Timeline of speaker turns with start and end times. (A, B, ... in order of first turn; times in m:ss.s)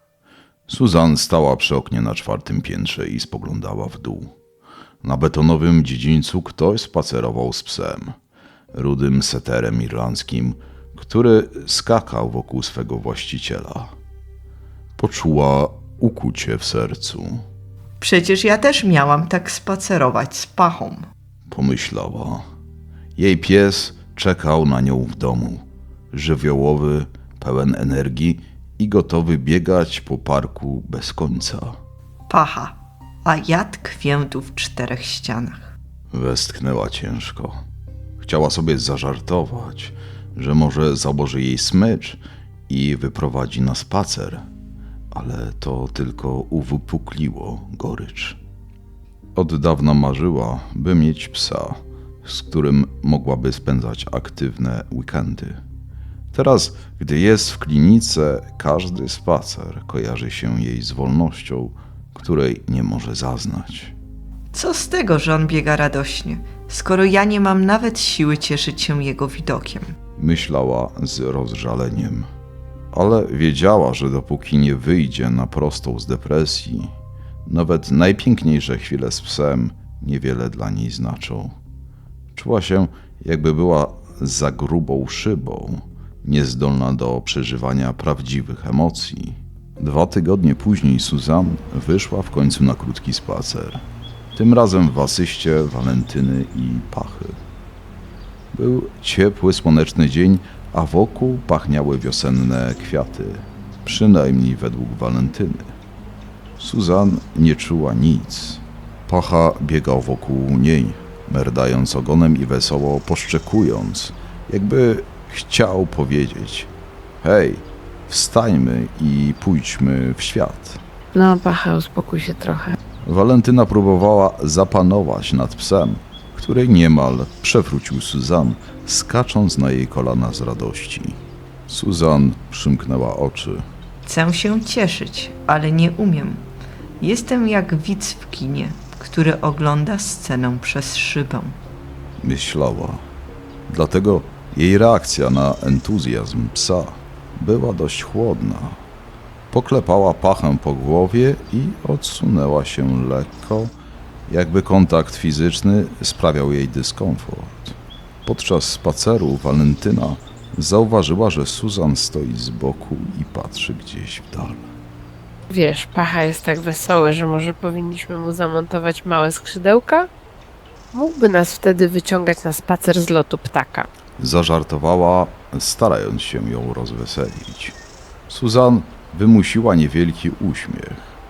0:00.7-0:04.3 A
0:05.0-0:08.2 A
0:08.7-0:13.9 A
0:15.0-0:17.4 A
0:18.0-0:21.0 B
0:21.5-0:22.4 A
0:23.2-0:31.8 A
0:32.3-0:35.7 B
0:36.1-0:37.6 A
0:38.2-0:44.4 A
0:45.1-0:48.4 A
0:49.4-0:55.6 A
0:56.3-1:03.9 A
1:04.5-1:09.9 B
1:10.2-1:12.3 A
1:12.9-1:16.9 A
1:17.5-1:21.5 A
1:22.3-1:33.8 A
1:34.3-1:37.4 A
1:38.5-1:45.7 A
1:46.6-1:56.7 A
1:57.2-2:00.8 A
2:01.1-2:02.8 C
2:03.0-2:13.6 A
2:14.0-2:16.4 B
2:17.0-2:21.5 B
2:22.2-2:23.0 A
2:23.7-2:28.8 A
2:29.5-2:33.7 A
2:34.3-2:44.7 A
2:45.5-2:50.1 C
2:50.9-2:53.9 C
2:54.2-2:57.8 A
2:58.3-3:01.0 A